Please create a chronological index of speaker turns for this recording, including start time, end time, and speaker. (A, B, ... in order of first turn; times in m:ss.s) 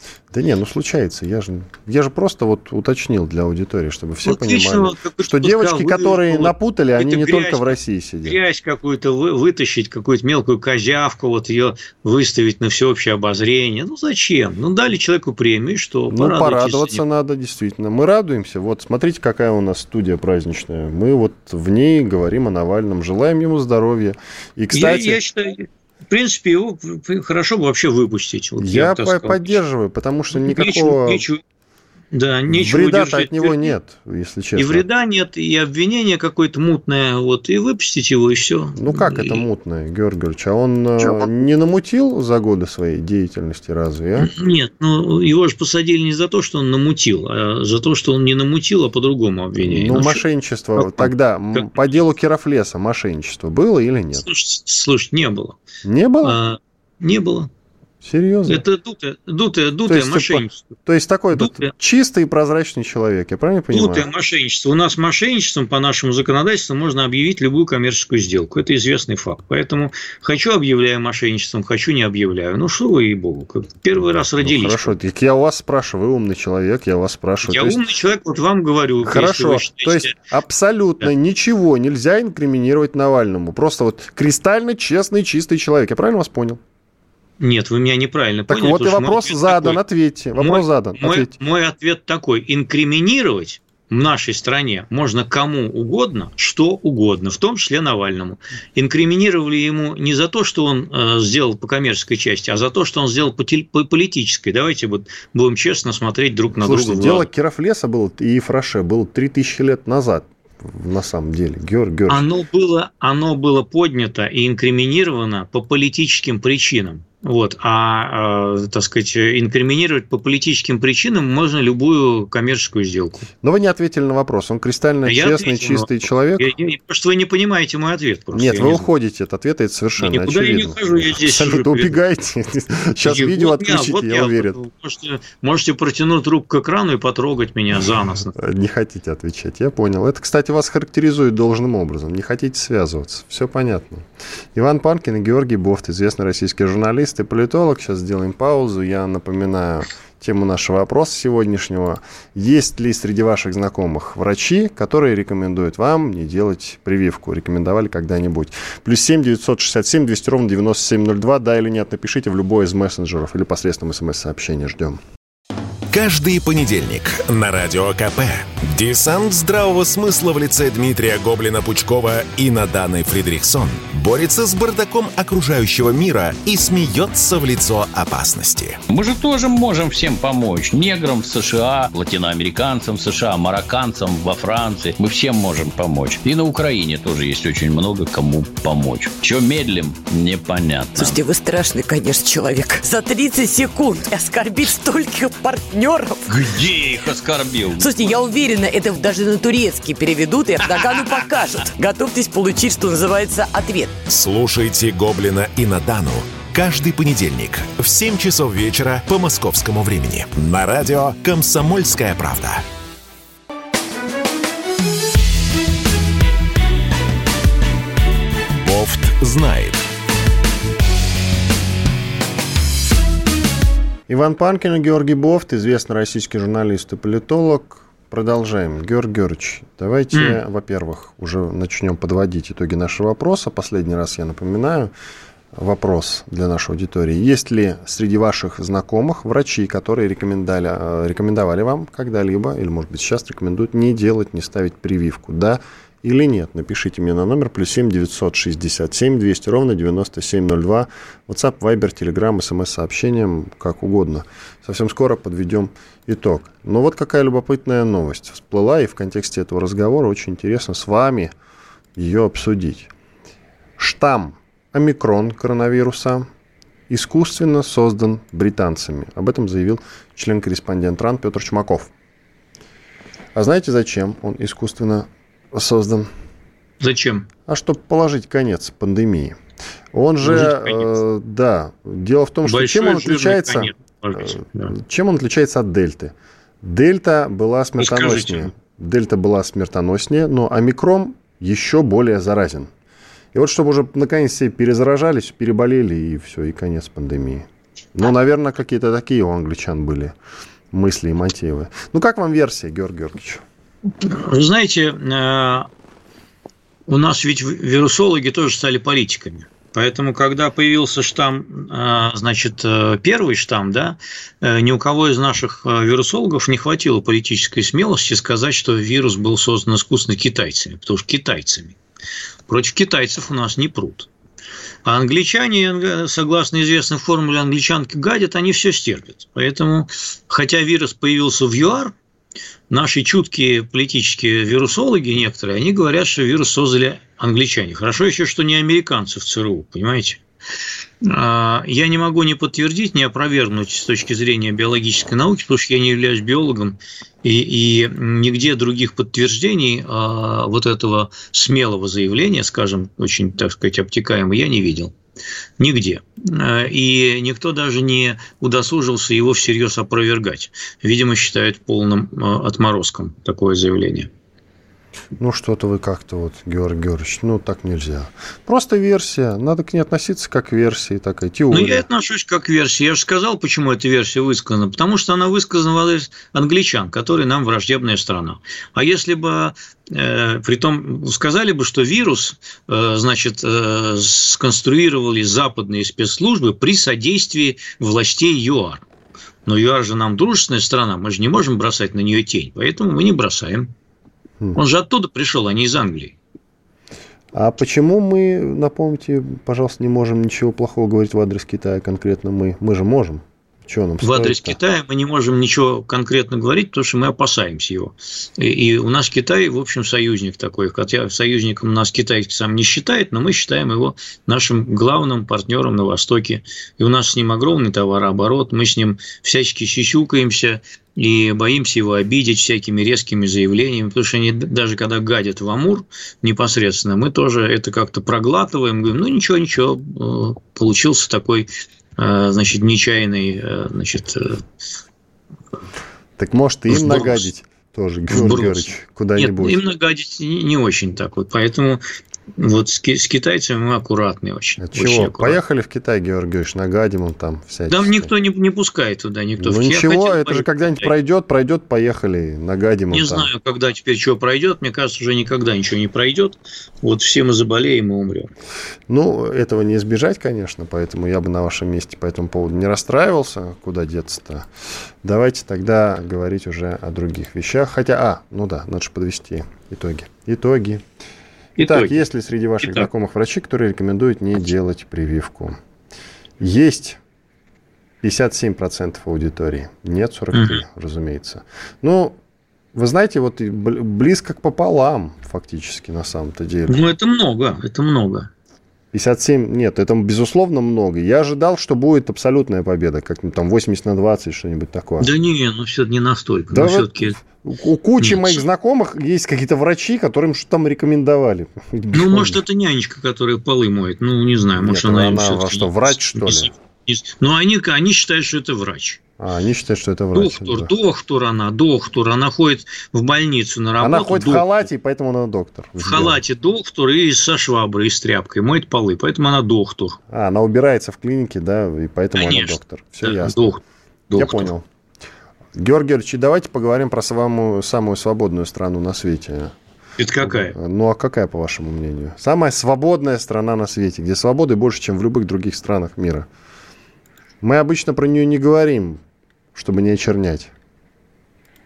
0:00.3-0:08.4 A
0:04.2-0:17.0 B
0:16.1-0:25.2 A
0:24.7-0:29.6 B
0:28.6-0:31.2 A
0:30.4-0:31.4 B
0:32.1-0:33.8 B
0:32.5-0:34.8 A
0:34.6-0:39.4 B
0:38.8-0:44.3 A
0:41.0-0:41.3 B
0:44.2-0:50.2 B
0:49.6-0:54.2 A
0:50.8-0:51.9 B
0:54.2-0:55.6 B
0:55.8-0:56.4 A
0:56.2-0:57.5 B
0:58.0-0:58.6 A
0:58.5-1:00.7 B
0:59.9-1:04.1 A
1:01.3-1:01.7 B
1:03.7-1:14.9 B
1:14.4-1:17.8 A
1:17.4-1:20.1 B
1:19.0-1:26.6 A
1:27.4-1:29.8 B
1:28.5-1:31.3 A
1:30.4-1:47.3 B
1:46.6-1:52.3 A
1:52.1-2:03.2 B
2:03.4-2:06.5 A
2:05.0-2:08.9 B
2:08.3-2:14.6 A
2:10.0-2:12.0 B
2:13.0-2:18.3 B
2:18.4-2:45.0 A
2:45.9-2:58.8 C
2:58.9-3:11.2 D
3:11.0-3:16.3 E
3:16.3-3:17.9 D
3:17.8-3:24.0 E
3:24.1-3:32.6 C
3:38.6-3:39.8 C
3:44.1-3:54.9 A
3:50.1-3:50.4 B
3:55.5-4:21.3 A
4:22.0-4:22.9 A
4:23.8-4:26.3 A
4:26.9-4:31.9 A
4:33.4-4:36.1 A
4:36.8-4:37.3 B
4:37.5-4:39.4 A
4:39.9-4:52.7 A
4:40.2-4:40.9 B
4:42.5-4:44.8 B
4:47.8-4:48.5 B
4:53.3-5:00.2 A
5:00.7-5:03.4 A
5:04.0-5:05.7 B
5:06.9-5:21.8 B
5:22.5-5:24.1 B
5:24.8-5:31.9 B
5:32.7-5:40.2 B
5:41.0-5:54.9 B
5:55.6-6:04.1 B
6:05.2-6:11.9 A
6:11.5-6:28.8 B
6:29.5-6:33.7 B
6:34.6-6:36.2 B
6:37.3-6:44.6 A
6:44.0-7:14.4 B
7:16.2-7:19.6 A
7:16.7-7:17.3 B
7:18.1-7:21.8 B
7:22.4-7:25.4 B
7:24.6-7:28.1 A
7:27.7-7:30.9 B
7:29.4-7:33.3 A
7:32.9-7:38.3 B
7:38.9-7:44.5 A
7:45.0-7:50.8 A
7:51.6-7:52.0 B
7:51.6-7:55.6 A
7:56.4-7:57.0 A
7:58.0-8:02.2 A
8:00.3-8:00.6 B
8:02.7-8:06.8 A
8:06.7-8:08.3 B
8:08.9-8:15.1 A
8:15.0-8:17.2 B
8:16.5-8:22.4 A
8:18.0-8:18.4 B
8:21.9-8:29.0 B
8:24.6-8:26.5 A
8:29.2-8:30.7 A
8:30.2-8:34.6 B
8:33.8-8:36.2 A
8:35.8-8:40.0 B
8:40.1-8:43.4 A
8:42.2-8:44.5 B
8:44.1-8:44.6 A
8:45.6-8:49.6 A
8:50.0-8:50.6 B
8:50.2-8:56.3 A
8:57.4-8:59.0 A
8:59.6-9:00.5 A